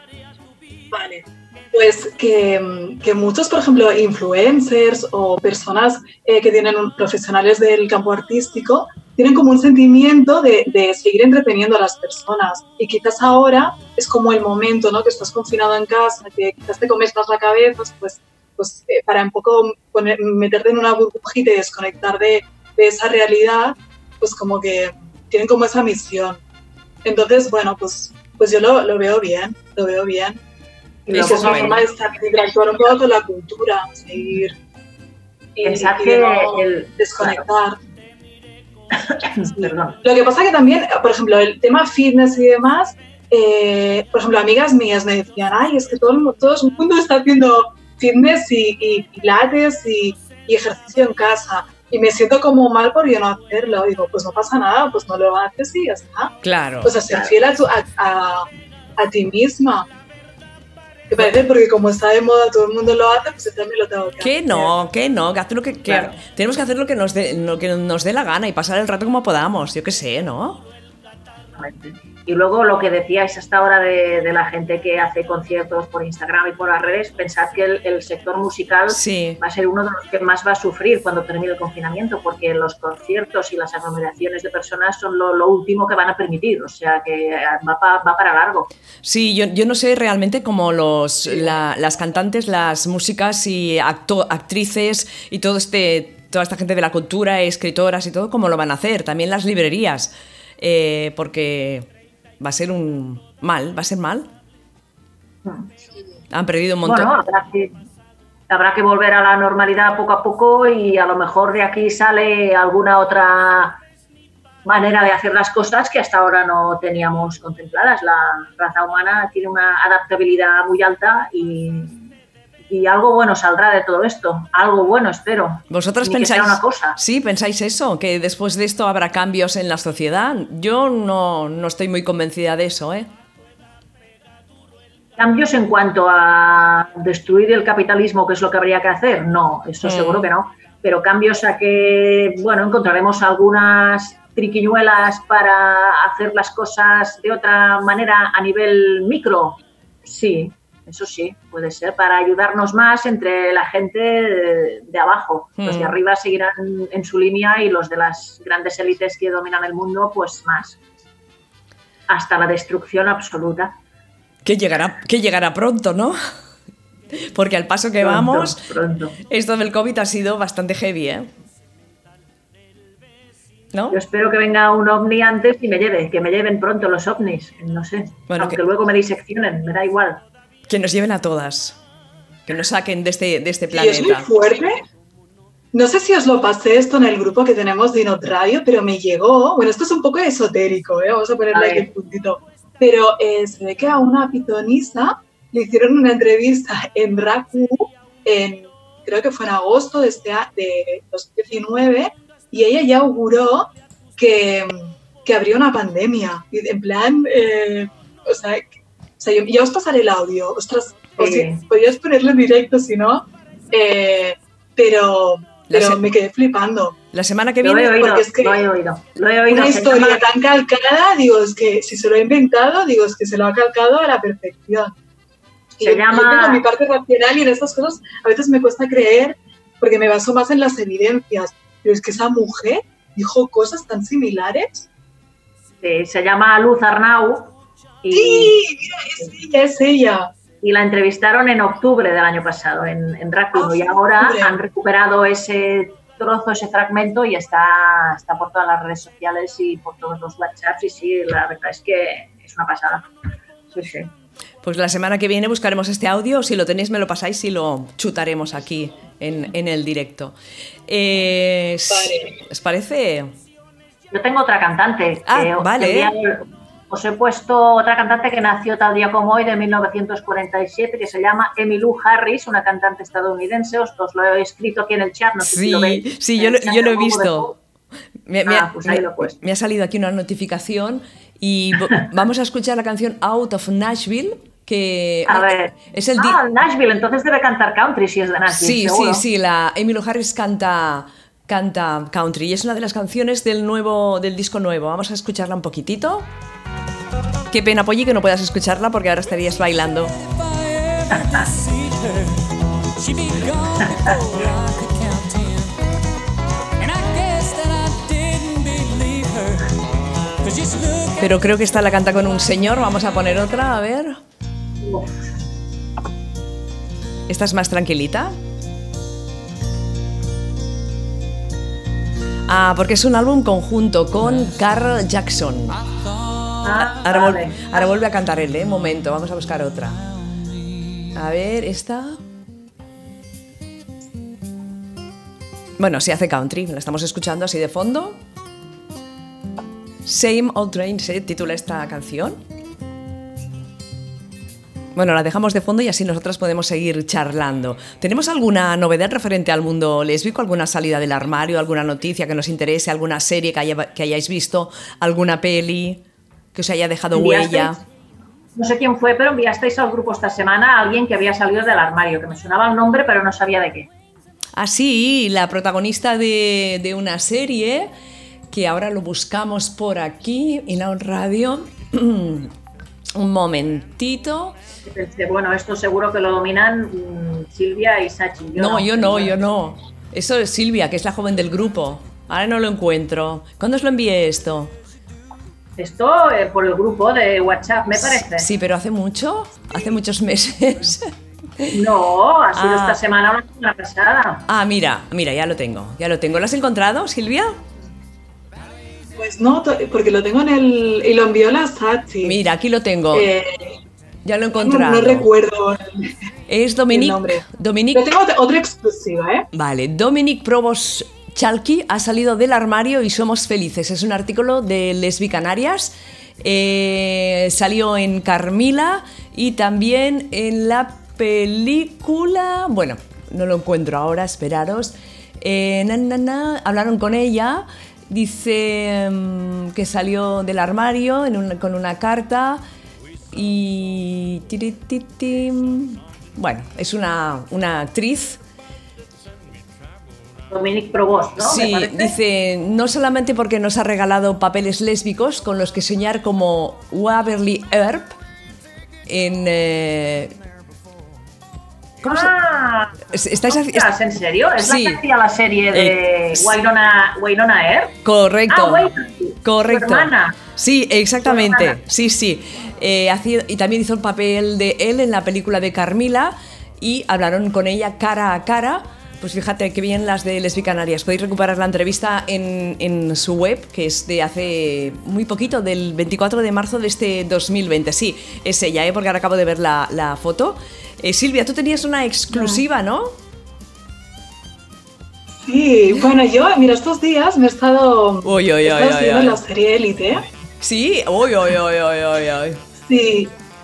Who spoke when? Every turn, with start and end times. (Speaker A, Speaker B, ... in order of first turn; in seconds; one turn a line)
Speaker A: 0.9-26.4
Speaker A: 27.0-30.4
Speaker B: 31.1-31.8
Speaker A: 31.1-34.5
Speaker C: 31.1-31.7
Speaker A: 35.5-37.8
Speaker B: 35.6-37.4
Speaker B: 38.9-40.0
Speaker A: 39.5-59.9
Speaker C: 56.4-57.0
Speaker A: 61.1-64.7
Speaker C: 64.2-70.6
Speaker B: 65.9-66.2
Speaker B: 71.6-88.7
Speaker C: 78.9-79.4
Speaker C: 89.0-101.9
Speaker C: 102.4-104.3
Speaker B: 105.4-105.7
Speaker C: 106.3-107.1
Speaker B: 106.8-107.7
Speaker B: 108.5-113.8
Speaker B: 114.6-122.1
Speaker B: 122.7-127.0
Speaker C: 125.7-133.1
Speaker B: 135.2-160.8
Speaker C: 139.8-140.3
Speaker C: 155.6-156.0
Speaker B: 162.1-163.7
Speaker C: 164.4-166.2
Speaker C: 167.1-168.6
Speaker B: 168.0-169.2
Speaker C: 169.2-171.3
Speaker C: 173.7-174.0
Speaker B: 173.9-180.2
Speaker C: 178.3-178.6
Speaker C: 180.7-181.8
Speaker C: 182.5-184.3
Speaker A: 183.7-184.8
Speaker A: 185.7-208.7
Speaker B: 191.5-191.9
Speaker A: 209.2-217.0
Speaker B: 211.2-211.6
Speaker C: 215.7-216.0
Speaker C: 217.1-218.2
Speaker B: 217.6-220.2
Speaker A: 218.0-218.6
Speaker A: 219.5-224.9
Speaker A: 225.8-234.9
Speaker B: 225.8-226.6
Speaker B: 235.8-238.5
Speaker A: 238.1-240.3
Speaker B: 240.6-253.1
Speaker A: 243.5-244.6
Speaker B: 253.7-254.1
Speaker C: 254.6-260.4
Speaker C: 260.9-263.3
Speaker A: 261.9-262.3
Speaker B: 264.1-277.5
Speaker C: 265.2-266.1
Speaker C: 275.4-277.5
Speaker C: 278.2-286.4
Speaker B: 278.4-279.4
Speaker B: 285.3-289.2
Speaker C: 288.5-296.3
Speaker C: 297.5-300.1
Speaker D: 300.2-305.8
Speaker D: 306.8-309.7
Speaker D: 310.4-311.4
Speaker C: 311.2-314.2
Speaker B: 314.8-315.3
Speaker C: 317.3-318.3
Speaker C: 322.5-325.8
Speaker B: 326.6-327.8
Speaker C: 327.0-330.1
Speaker C: 331.1-332.2
Speaker C: 335.8-338.2
Speaker C: 340.0-342.4
Speaker C: 344.9-357.8
Speaker B: 357.1-357.8
Speaker B: 358.6-363.9
Speaker C: 364.5-367.9
Speaker C: 368.5-372.5
Speaker C: 373.1-374.6
Speaker B: 374.9-379.3
Speaker C: 378.6-384.7
Speaker B: 385.8-388.5
Speaker C: 387.9-391.7
Speaker B: 391.7-394.4
Speaker C: 392.5-393.0
Speaker C: 394.5-397.6
Speaker A: 399.2-402.4
Speaker C: 402.2-403.3
Speaker A: 403.1-403.8
Speaker C: 404.2-405.3
Speaker A: 404.6-406.1
Speaker C: 406.5-408.1
Speaker A: 406.9-409.4
Speaker C: 409.5-432.6
Speaker C: 433.3-438.4
Speaker B: 440.5-442.1
Speaker C: 441.4-448.2
Speaker C: 449.1-450.4
Speaker B: 452.0-453.0
Speaker C: 452.0-452.3
Speaker C: 453.1-453.9
Speaker B: 453.5-457.9
Speaker C: 454.6-455.0
Speaker C: 455.7-456.5
Speaker C: 458.0-458.9
Speaker B: 458.5-460.4
Speaker C: 459.4-483.1
Speaker B: 461.2-461.8
Speaker A: 485.4-490.2
Speaker C: 488.2-489.4
Speaker C: 490.6-492.6
Speaker A: 492.9-493.3